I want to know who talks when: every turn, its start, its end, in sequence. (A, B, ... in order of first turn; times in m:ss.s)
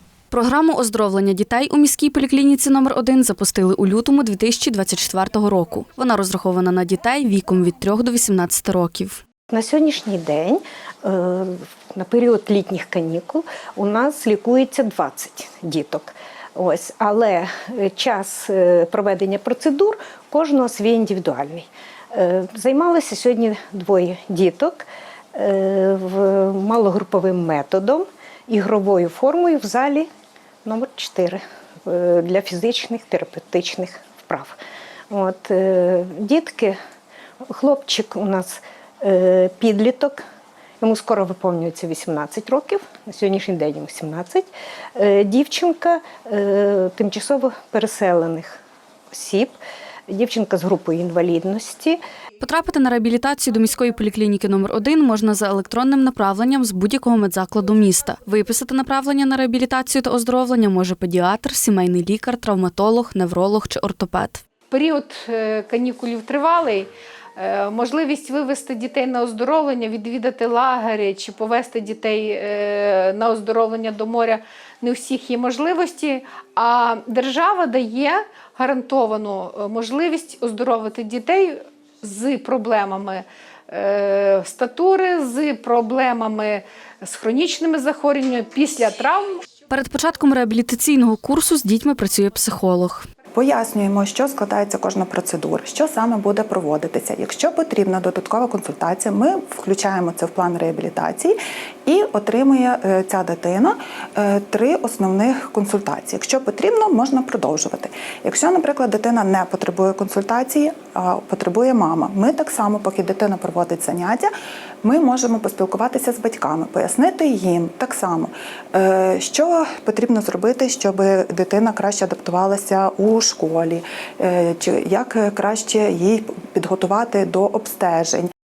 0:00.3-0:09.2 A
0:09.5-0:30.1 B
0:30.6-0:34.6 B
0:35.1-0:36.8 B
0:37.4-0:40.2 B
0:40.8-0:48.6 B
0:49.1-0:49.5 B
0:50.1-0:52.0 B
0:52.4-1:04.4 A
1:04.7-1:29.4 C
1:29.7-1:33.1 A
1:33.3-1:54.3 D
1:54.8-2:08.3 D